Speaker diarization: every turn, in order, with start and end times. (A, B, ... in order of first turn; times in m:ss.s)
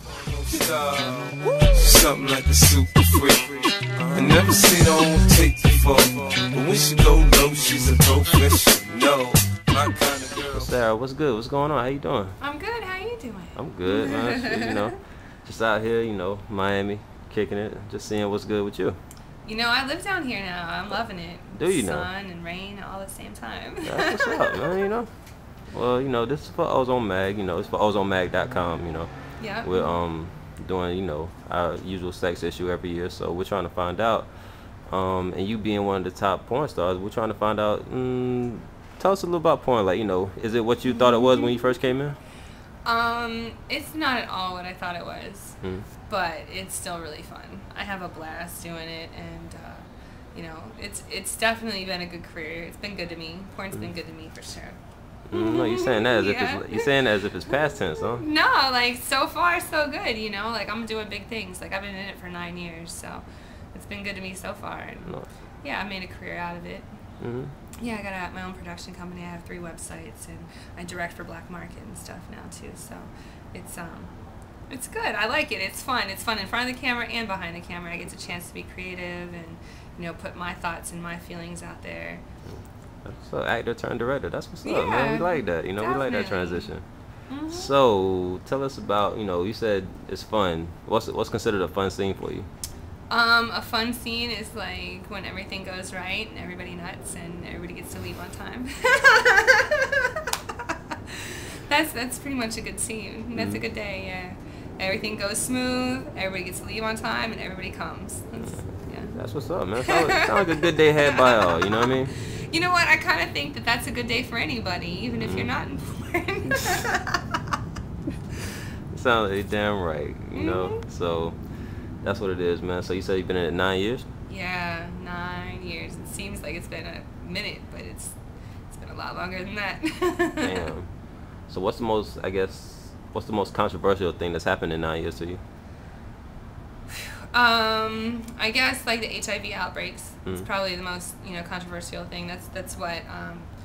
0:00.2-0:10.7 A
0:10.4-0:12.4 B
0:12.4-0:14.8 C
0:13.6-0:19.0 B
0:19.4-0:24.8 C
0:21.5-0:22.1 B
0:23.8-0:25.1 B
0:25.7-0:34.3 B
0:29.4-0:29.9 C
0:34.9-0:42.2 B
0:40.8-0:41.5 C
0:42.8-0:54.8 C
0:45.6-0:45.9 B
0:55.3-0:58.2 B
0:55.3-0:56.9 C
0:58.1-1:06.9 C
1:07.2-1:07.5 B
1:07.8-1:14.1 C
1:14.7-1:22.2 C
1:22.4-1:32.5 B
1:24.6-1:26.7 C
1:27.3-1:27.7 C
1:33.1-1:49.2 C
1:43.3-1:43.6 B
1:49.1-1:52.1 B
1:49.8-1:57.4 C
1:55.2-1:55.5 B
1:58.9-2:01.4 B
2:00.3-2:00.8 C
2:02.0-2:04.1 B
2:04.3-2:10.7 C
2:10.4-2:15.4 B
2:16.9-2:23.5 C